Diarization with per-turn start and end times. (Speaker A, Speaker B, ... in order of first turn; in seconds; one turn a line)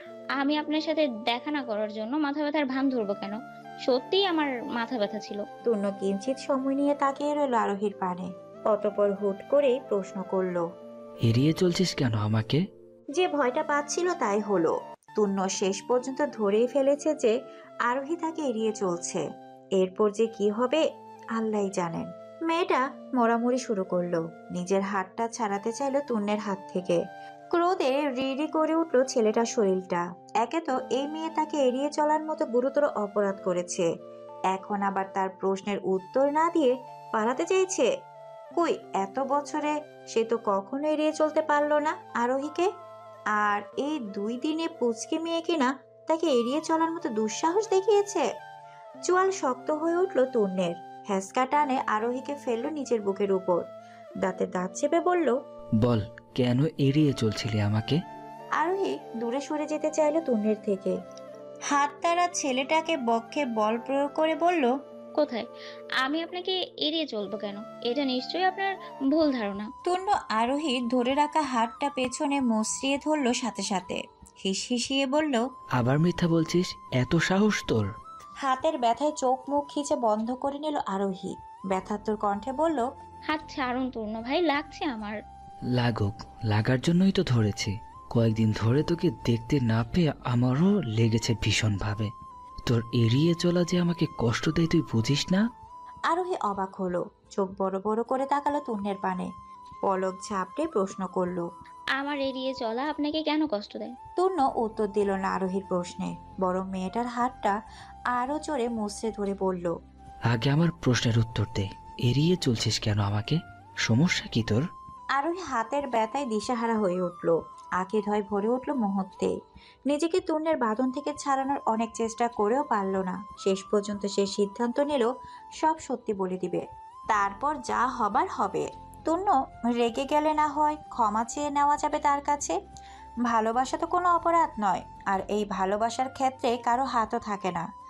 Speaker A: 0.4-5.4
Speaker B: 5.7-10.6
Speaker C: 11.2-12.6
Speaker B: 13.2-17.3
Speaker B: 17.9-19.2
Speaker B: 19.8-20.8
Speaker B: 21.4-27.0
Speaker B: 27.5-33.9
Speaker B: 34.5-37.9
Speaker B: 38.5-42.7
Speaker B: 43.4-48.2
Speaker B: 49.1-53.6
Speaker B: 54.2-55.4
Speaker C: 55.8-58.0
Speaker B: 58.6-61.0
Speaker B: 61.7-64.7
Speaker A: 65.2-65.5
Speaker A: 66.0-69.7
Speaker B: 69.8-75.4
Speaker C: 75.8-77.9
Speaker B: 78.4-82.8
Speaker A: 83.3-85.2
Speaker C: 85.8-92.1
Speaker C: 92.7-95.4
Speaker B: 96.1-99.3
Speaker B: 99.8-101.5
Speaker A: 102.0-103.9
Speaker B: 104.2-107.5
Speaker B: 108.1-109.7
Speaker C: 110.3-114.6
Speaker B: 115.2-119.3
Speaker B: 119.9-132.6
Speaker B: 133.2-137.6